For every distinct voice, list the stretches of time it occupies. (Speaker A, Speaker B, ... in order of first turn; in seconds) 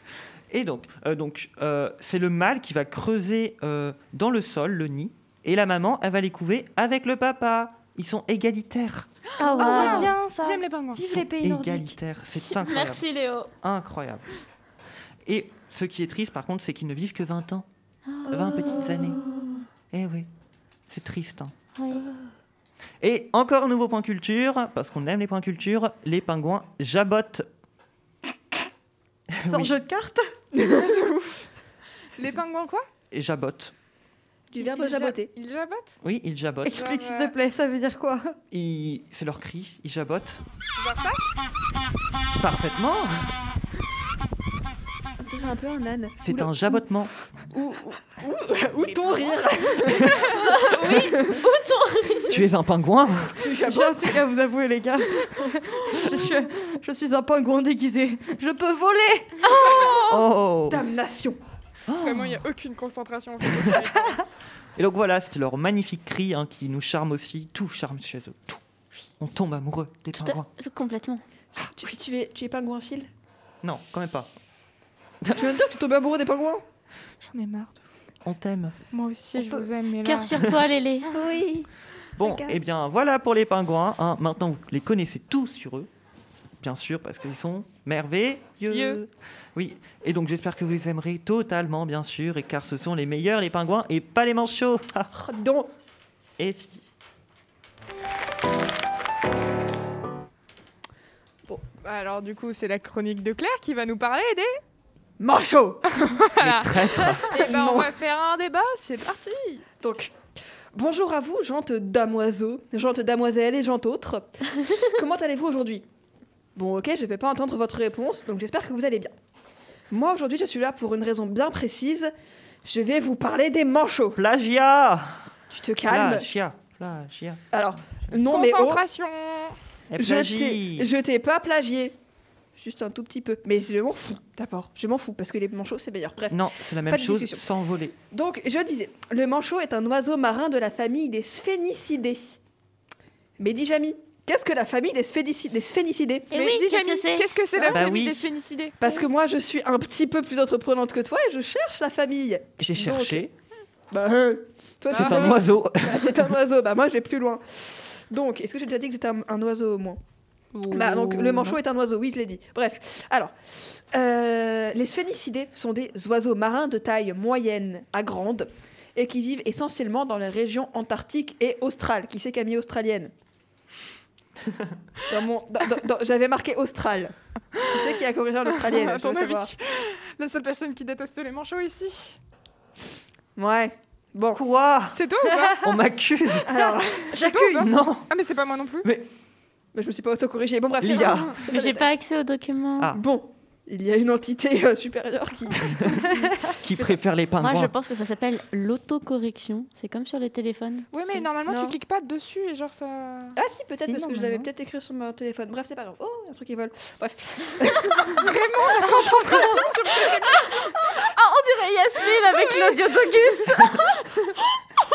Speaker A: 0.5-9.1, 11.0-13.1, 13.6-14.2, 15.2-17.7, 18.3-19.2, 19.9-20.3, 20.9-21.5, 23.0-27.5, 29.3-29.7, 33.1-33.7, 36.0-36.8, 38.5-40.4, 42.4-43.3, 46.2-47.1, 52.3-53.4, 60.0-60.9, 61.9-62.4, 64.8-68.6, 69.2-70.5, 73.6-74.3, 75.2-75.6, 78.2-78.8, 82.2-85.9, 86.6-95.1, 96.4-96.8, 106.4-107.4, 124.2-125.3, 125.8-127.4, 129.9-130.9, 136.3-138.0, 147.7-148.2, 152.6-153.3, 154.9-156.3, 184.3-185.0, 185.6-186.6, 187.6-188.1, 190.8-191.4, 195.7-196.1, 196.6-197.7
Speaker B: 9.3-11.0, 30.7-31.5, 32.2-32.9, 34.6-36.0, 36.7-37.3, 40.8-41.2, 48.8-50.8, 62.0-64.2, 77.2-77.8, 78.9-80.4, 88.7-89.0, 101.8-104.6, 106.0-109.7, 128.3-129.6, 146.3-148.8, 154.9-155.4, 160.6-161.6, 177.6-177.8, 178.5-182.2, 184.9-185.6, 187.1-188.9, 200.9-203.4, 208.2-211.0, 212.3-213.8
Speaker C: 9.4-10.1, 12.5-13.5, 18.1-19.4, 21.8-22.1, 50.4-52.4, 59.4-60.3, 70.2-71.2, 80.0-81.2, 146.3-147.3, 191.4-192.9, 197.4-201.2, 210.8-214.4
Speaker D: 9.5-12.0, 18.4-19.2, 29.4-30.2, 36.6-38.4, 53.6-59.4, 185.3-185.8, 187.1-187.8, 203.8-204.5, 208.7-209.7
Speaker E: 30.6-31.0, 34.5-35.3, 45.2-46.9, 47.5-51.4, 53.4-54.2, 60.7-61.4, 71.6-73.1, 75.3-76.6, 81.1-81.7, 82.2-82.6, 95.1-95.7, 105.2-105.9, 107.3-107.9, 109.8-110.1, 110.7-115.8, 116.6-119.1, 119.9-122.1, 122.6-124.2, 125.5-126.3, 127.5-128.8, 130.0-132.0, 132.6-137.5, 138.1-142.4, 143.4-146.3, 148.8-153.3, 153.9-160.0, 160.7-173.1, 175.1-179.5, 183.4-184.4, 186.5-187.2, 189.7-191.9, 192.9-197.0, 201.5-201.8, 203.4-208.3